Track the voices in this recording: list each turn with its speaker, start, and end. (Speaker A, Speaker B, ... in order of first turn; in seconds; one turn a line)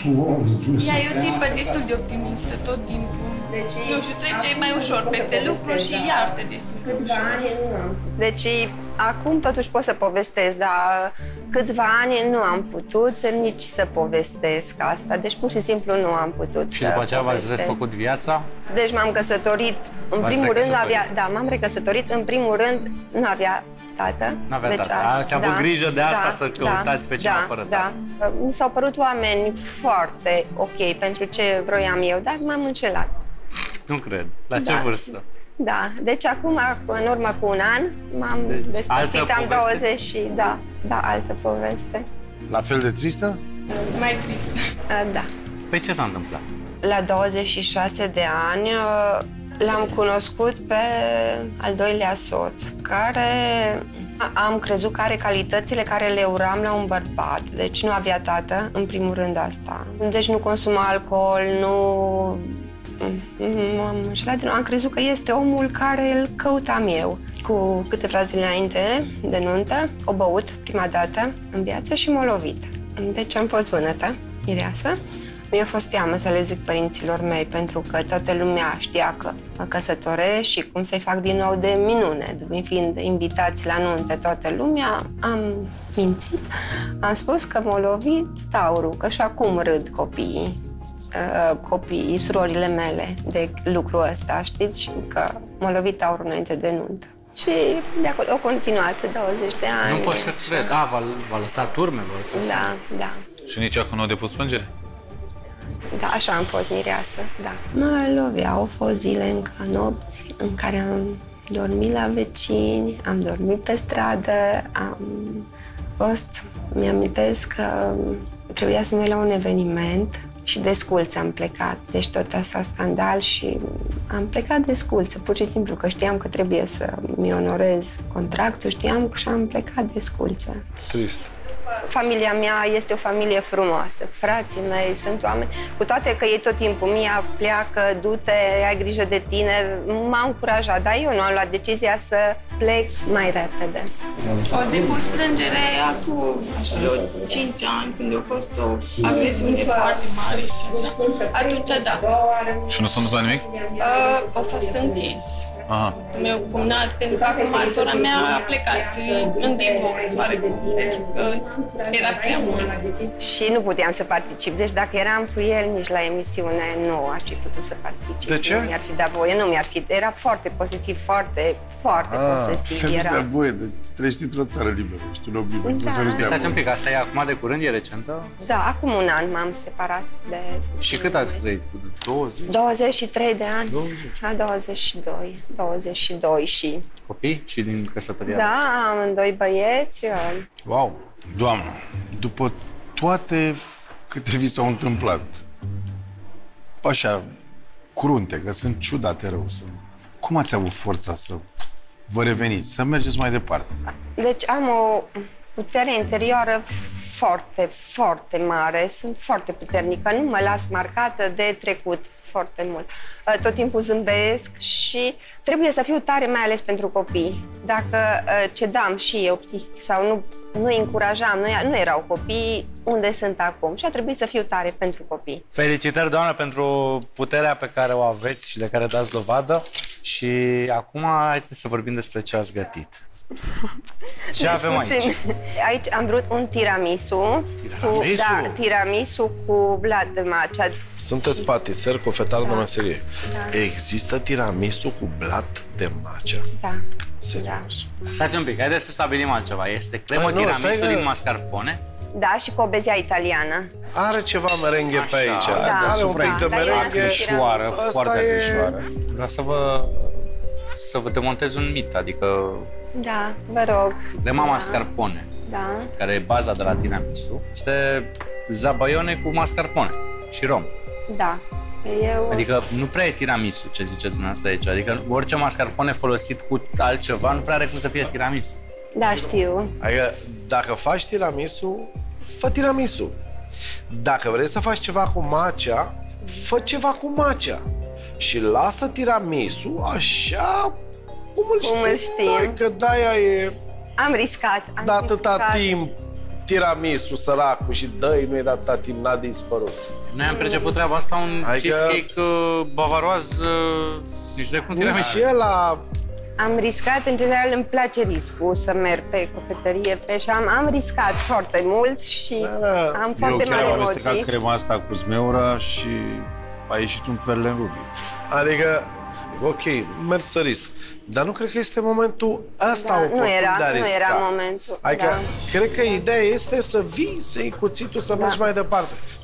Speaker A: 0.2-0.6
Speaker B: 0.8-7.5
Speaker C: 1.0-1.8
Speaker D: 3.5-17.8
Speaker C: 16.7-18.5
Speaker D: 18.7-33.1
Speaker C: 20.2-21.0
Speaker C: 24.5-27.9
Speaker C: 33.9-35.2
Speaker D: 34.5-42.1
Speaker C: 38.5-39.9
Speaker A: 42.5-43.4
Speaker D: 43.7-44.1
Speaker B: 43.9-44.6
Speaker D: 44.9-45.3
Speaker C: 45.7-46.4
Speaker D: 46.8-75.0
Speaker D: 75.5-86.5
Speaker D: 87.0-90.6
Speaker D: 91.1-100.8
Speaker C: 99.8-102.7
Speaker D: 102.3-103.1
Speaker E: 103.5-104.7
Speaker D: 105.9-115.5
Speaker D: 116.0-130.7
Speaker F: 130.9-131.3
Speaker D: 131.9-143.9
Speaker B: 144.4-152.1
Speaker D: 146.5-147.5
Speaker D: 149.0-173.3
Speaker E: 152.7-153.5
Speaker B: 153.8-155.4
Speaker E: 155.7-156.0
Speaker B: 156.1-162.8
Speaker F: 168.2-168.8
Speaker A: 172.3-176.5
Speaker D: 175.6-176.6
Speaker C: 176.1-178.3
Speaker D: 178.4-181.4
Speaker C: 180.8-182.0
Speaker F: 182.1-182.6
Speaker D: 182.5-186.8
Speaker F: 183.7-184.1
Speaker C: 187.1-188.5
Speaker D: 188.3-190.4
Speaker A: 190.7-195.4
Speaker A: 196.8-197.2
Speaker A: 197.9-201.4
Speaker A: 202.1-203.7
Speaker D: 204.2-225.4
Speaker C: 225.5-233.0
Speaker D: 234.3-240.8
Speaker C: 234.3-235.2
Speaker C: 237.6-238.1
Speaker F: 237.8-238.6
Speaker F: 241.0-246.4
Speaker D: 242.4-242.7
Speaker D: 243.3-243.6
Speaker F: 247.2-247.9
Speaker D: 247.4-247.7
Speaker C: 248.1-251.8
Speaker F: 250.1-251.1
Speaker D: 252.2-253.7
Speaker F: 253.9-258.8
Speaker C: 254.9-255.8
Speaker A: 255.5-258.9
Speaker D: 255.5-257.8
Speaker C: 259.1-260.2
Speaker C: 260.8-262.7
Speaker D: 262.9-264.8
Speaker C: 264.2-265.3
Speaker D: 265.5-265.9
Speaker C: 266.0-270.7
Speaker D: 271.1-272.5
Speaker C: 272.3-278.6
Speaker D: 278.9-279.8
Speaker F: 279.8-283.2
Speaker F: 283.9-287.6
Speaker F: 288.2-290.7
Speaker F: 291.4-293.6
Speaker D: 291.6-292.6
Speaker D: 294.0-295.7
Speaker F: 294.8-296.0
Speaker F: 296.5-299.8
Speaker C: 300.1-305.3
Speaker D: 300.2-300.9
Speaker F: 301.4-302.0
Speaker F: 304.8-305.8
Speaker D: 306.4-314.3
Speaker F: 312.4-313.8
Speaker A: 313.2-317.9
Speaker F: 318.3-324.3
Speaker D: 322.7-326.1
Speaker F: 324.8-329.0
Speaker D: 328.1-328.5